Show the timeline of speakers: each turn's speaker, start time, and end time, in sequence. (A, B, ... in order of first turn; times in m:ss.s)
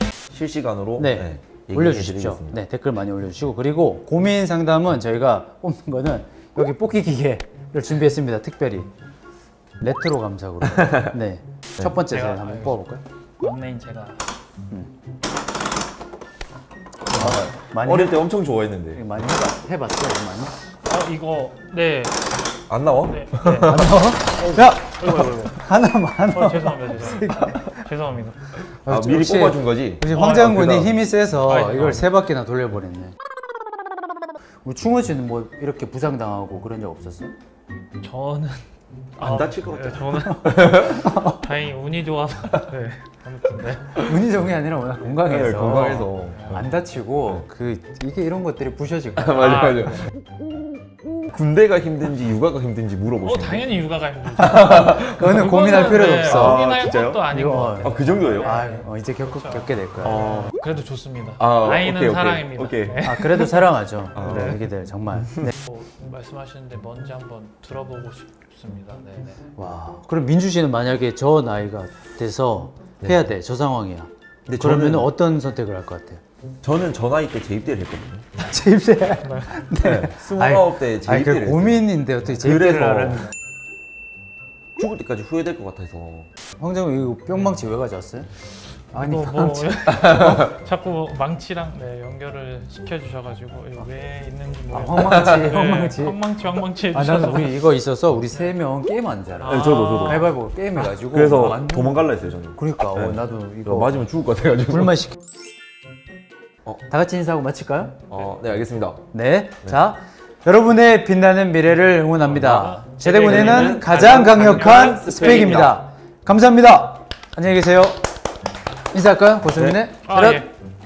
0:00.3-0:02.6 A
0:01.0-0:08.9 B
0:09.8-0:13.0 B
0:10.8-0:11.0 A
0:12.0-0:12.8 C
0:13.4-0:14.2 C
0:17.1-0:18.3 B
0:17.1-0:19.0 A
0:18.9-0:20.6 B
0:20.9-0:22.2 C
0:22.7-0:24.0 A
0:23.0-0:25.6 C
0:23.6-0:27.8 B
0:26.3-0:28.4 C
0:28.6-0:33.1 B
0:28.9-0:31.0 A
0:31.5-0:32.1 C
0:34.6-0:37.3 B
0:38.0-0:38.6 C
0:39.2-0:44.1 C
0:39.2-0:41.1 A
0:40.8-0:41.4 B
0:43.9-0:49.6 B
0:45.2-0:46.7 A
0:46.4-0:46.6 C
0:49.2-0:50.1 A
0:49.3-0:50.0 C
0:51.1-0:53.8 A
0:53.2-1:03.7 C
0:54.4-0:55.3 A
0:54.6-0:56.7 B
0:56.1-0:58.6 A
0:57.3-1:00.4 B
1:00.0-1:00.6 A
1:01.4-1:03.3 A
1:03.0-1:05.5 B
1:04.2-1:04.7 A
1:04.2-1:04.5 C
1:05.6-1:09.5 C
1:09.6-1:16.2 B
1:14.5-1:15.1 A
1:16.6-1:18.3 A
1:18.4-1:23.3 B
1:19.2-1:19.6 C
1:19.8-1:23.3 A
1:24.8-1:26.3 A
1:26.6-1:28.3 B
1:28.9-1:30.4 B
1:28.9-1:37.6 C
1:30.0-1:30.5 A
1:34.7-1:36.2 B
1:36.9-1:42.0 B
1:39.4-1:40.3 C
1:39.4-1:45.0 A
1:42.6-1:44.0 B
1:44.7-1:45.2 B
1:46.9-1:48.0 B
1:48.1-1:49.0 A
1:49.1-1:58.0 B
1:52.3-1:55.6 C
1:53.0-1:55.8 A
1:58.9-2:00.5 B
1:59.6-1:59.8 A
2:00.0-2:00.5 C